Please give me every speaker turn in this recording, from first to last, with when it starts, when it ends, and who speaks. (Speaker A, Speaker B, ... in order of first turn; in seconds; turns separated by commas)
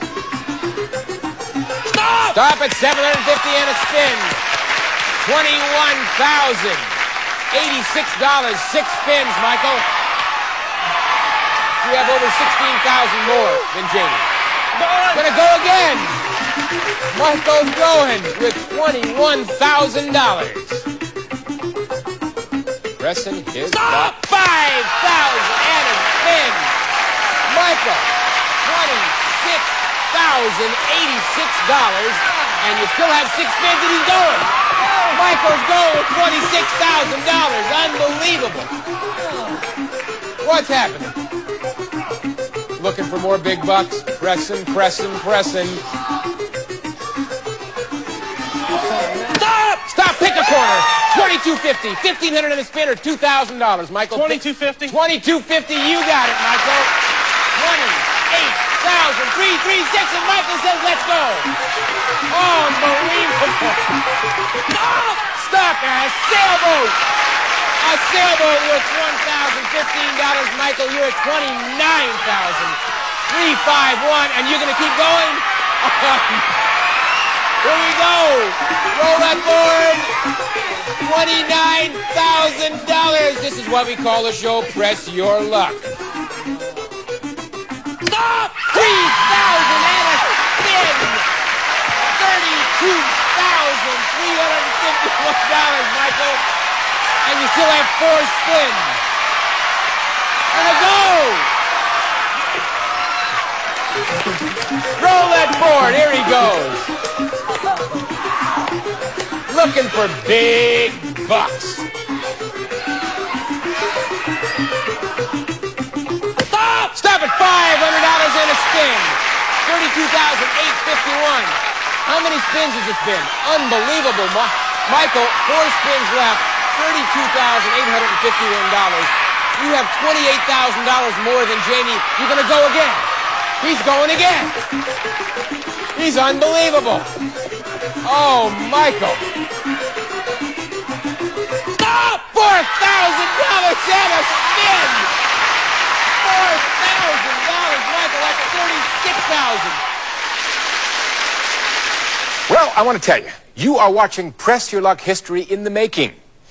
Speaker A: 1.9-2.4, Speaker B: 2.2-4.4, Speaker B: 5.2-7.0, Speaker B: 7.5-9.9, Speaker B: 11.8-14.3, Speaker A: 14.7-15.3, Speaker B: 15.1-16.2, Speaker B: 17.1-20.9, Speaker B: 23.0-26.7, Speaker A: 23.7-24.1, Speaker B: 27.5-28.1, Speaker B: 28.6-38.7, Speaker B: 40.4-41.1, Speaker B: 42.8-45.8, Speaker A: 49.0-49.8, Speaker B: 49.9-56.9, Speaker A: 54.1-55.0, Speaker B: 57.5-61.5, Speaker B: 62.3-64.0, Speaker B: 64.7-67.0, Speaker B: 67.8-76.5, Speaker B: 77.6-80.1, Speaker B: 80.9-85.9, Speaker B: 88.2-91.3, Speaker B: 92.0-96.4, Speaker B: 97.2-99.0, Speaker B: 100.5-101.5, Speaker B: 105.0-106.9, Speaker B: 109.5-111.9, Speaker A: 116.5-116.8, Speaker B: 116.9-133.1, Speaker B: 133.6-134.6, Speaker B: 135.9-137.1, Speaker B: 138.0-139.2, Speaker B: 141.8-145.1, Speaker B: 146.2-149.8, Speaker B: 152.5-156.1